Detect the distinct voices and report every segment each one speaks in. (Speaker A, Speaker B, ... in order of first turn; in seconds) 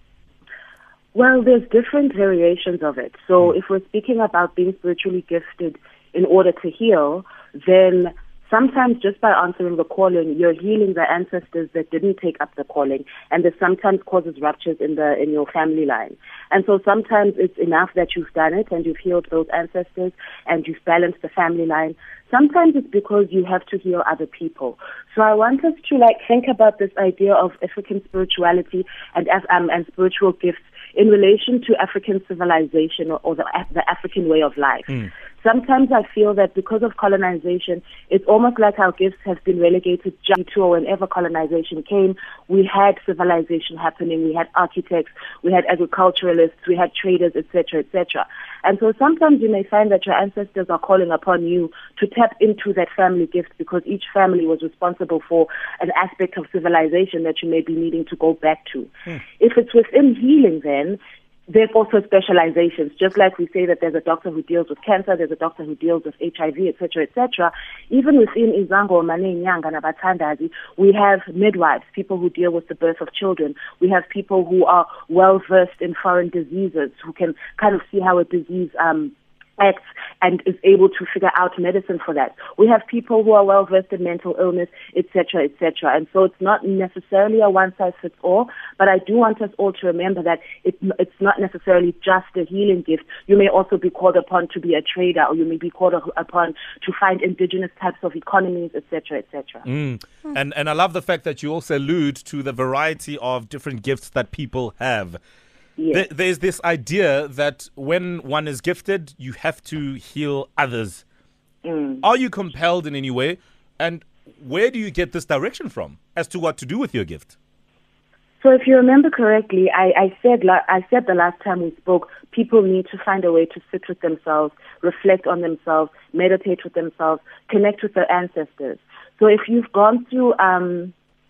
Speaker A: 1.1-61.0, 61.5-99.6, 105.8-106.0, 111.6-112.0, 118.4-130.9
Speaker B: 99.7-105.2, 105.9-111.0, 112.0-117.3